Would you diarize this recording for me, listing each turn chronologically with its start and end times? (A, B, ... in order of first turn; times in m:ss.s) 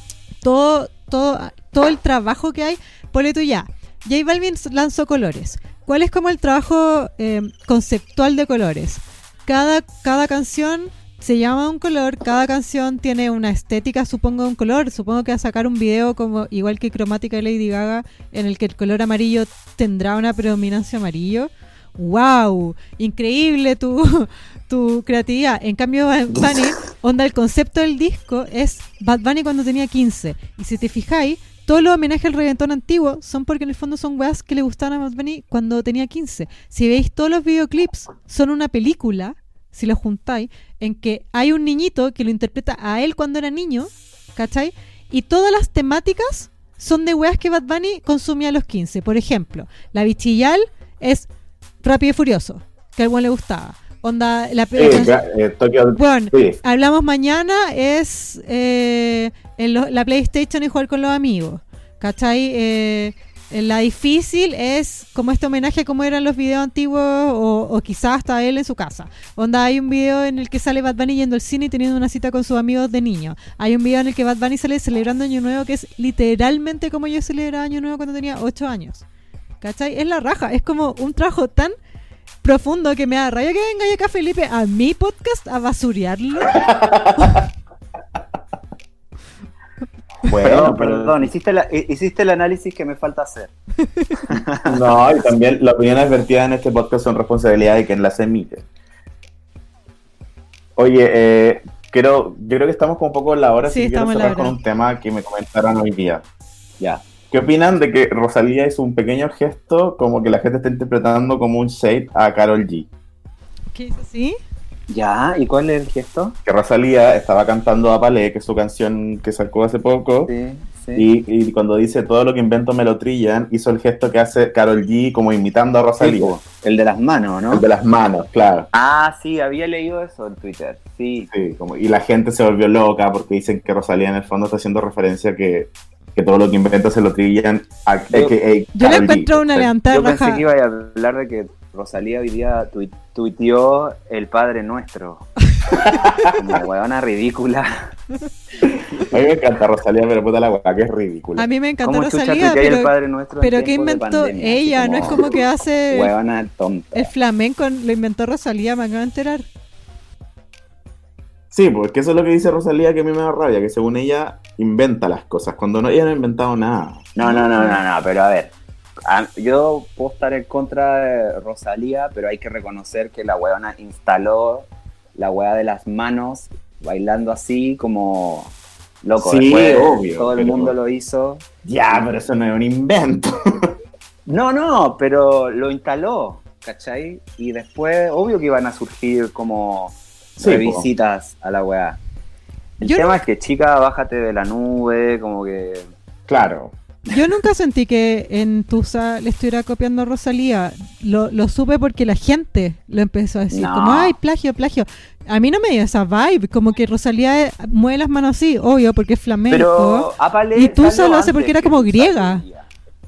0:00.4-0:51.3 A
0:51.8-0:55.2 A
0:54.8-0:56.6 B
0:55.9-1:19.0 A
1:19.6-1:21.7 A
1:22.4-1:27.4 A
1:26.5-1:27.4 B
1:30.2-1:31.3 B
1:30.4-1:33.5 C
1:33.8-1:34.2 A
1:34.3-1:34.8 C
1:34.6-1:38.6 B
1:40.8-1:46.2 B
1:43.6-1:44.5 A
1:47.3-1:52.9 B
1:53.7-1:54.4 A
1:54.9-1:56.4 C
1:56.4-2:00.3 B
2:00.2-2:01.1 C
2:00.9-2:06.3 B
2:06.0-2:07.6 C
2:07.5-2:08.7 B
2:08.7-2:11.3 C
2:11.3-2:19.7 B
2:18.8-2:20.4 A
2:19.9-2:25.3 C
2:25.7-2:26.4 B
2:26.2-2:27.8 C
2:29.0-2:31.5 B
2:31.4-2:36.1 A
2:31.8-2:35.4 C
2:35.9-2:37.1 C
2:36.9-2:39.4 A
2:41.5-2:47.1 B
2:47.1-2:48.5 C
2:47.2-2:47.8 A
2:49.0-3:02.0 C
2:59.2-3:00.7 B
3:01.6-3:03.7 B
3:04.3-3:12.0 C
3:10.4-3:10.9 B
3:12.8-3:13.2 A
3:12.8-3:15.9 C
3:16.3-3:16.7 B
3:17.1-3:32.4 A
3:23.5-3:24.1 C
3:29.5-3:32.7 C